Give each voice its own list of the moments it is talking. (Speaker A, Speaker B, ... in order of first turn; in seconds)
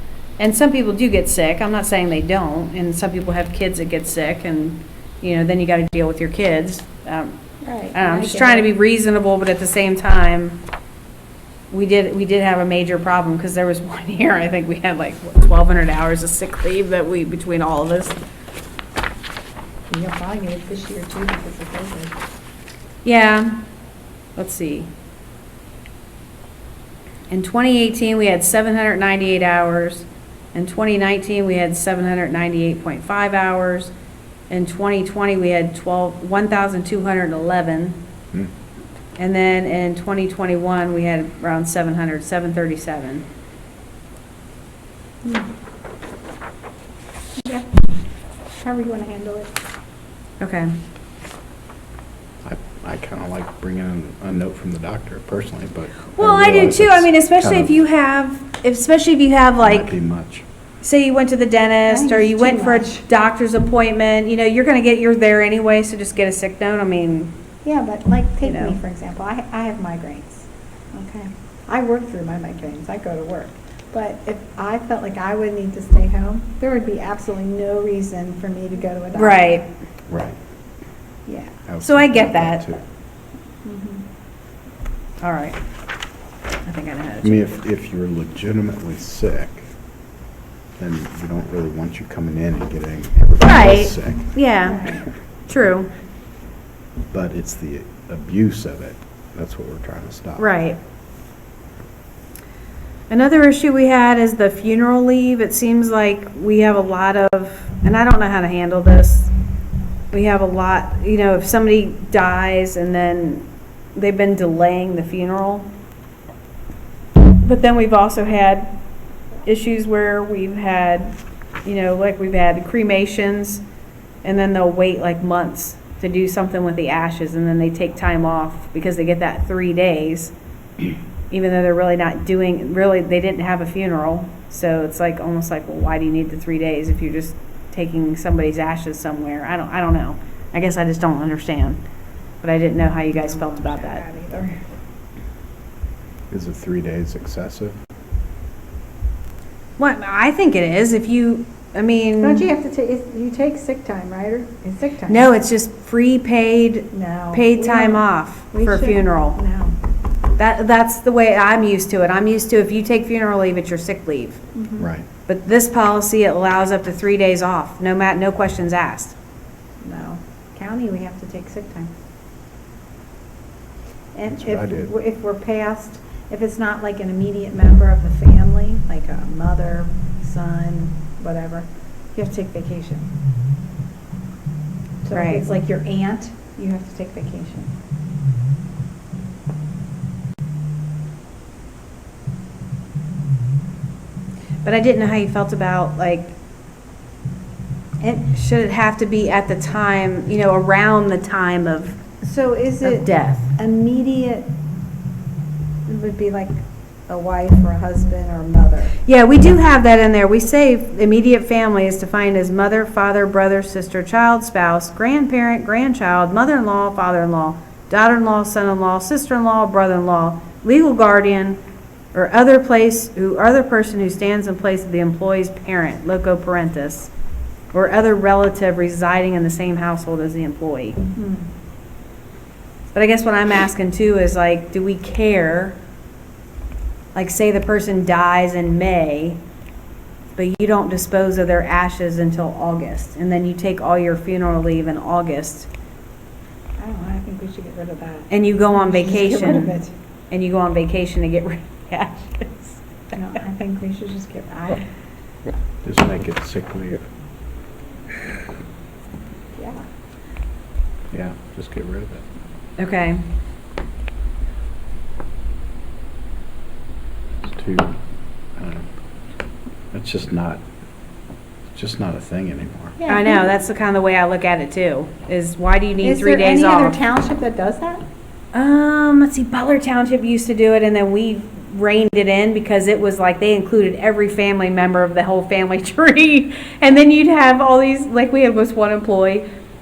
Speaker A: 0.4-7.4, 7.9-10.6, 11.7-18.2, 23.0-23.6, 24.4-24.9, 27.3-33.9, 34.5-38.0, 39.2-43.2, 50.4-50.7, 56.1-59.9, 60.8-67.3, 68.4-68.8, 79.1-79.7, 81.8-82.7, 85.2-85.6, 86.6-87.5, 93.4-95.9, 100.4-100.8, 103.1-109.3, 110.1-115.7, 117.4-118.7, 119.4-123.6, 124.2-130.3, 131.3-141.8, 142.4-144.0, 149.8-152.5, 155.1-159.4, 160.4-164.4, 165.3-169.2, 185.1-185.4, 194.6-196.3, 198.2-202.0, 202.8-203.4, 209.0-221.6, 222.1-227.1, 227.7-231.0, 232.9-235.8, 237.1-239.4, 240.3-245.7, 248.3-249.8, 250.3-252.8, 262.8-263.2, 273.1-277.0, 278.5-289.4
Speaker B: 7.6-8.7, 19.9-22.1, 47.4-47.7, 48.6-49.5, 61.9-63.0, 67.6-79.5, 81.3-81.5, 83.6-84.0, 94.7-95.0, 143.1-144.6, 152.2-155.3, 156.9-159.7, 164.6-164.8, 169.8-171.9, 174.2-183.1, 185.0-187.7, 202.2-204.5, 205.9-206.5, 207.1-208.9, 246.8-249.9, 253.2-254.8, 273.0-273.5, 276.0-278.0
Speaker C: 52.4-57.7, 59.6-60.4, 80.1-80.3, 81.7-82.8, 87.2-89.7, 90.8-94.3, 97.1-100.5, 146.3-147.8, 164.8-165.1, 174.3-174.9, 255.8-257.0, 261.1-262.2, 267.4-267.9, 268.6-268.8, 269.9-270.6, 271.7-273.0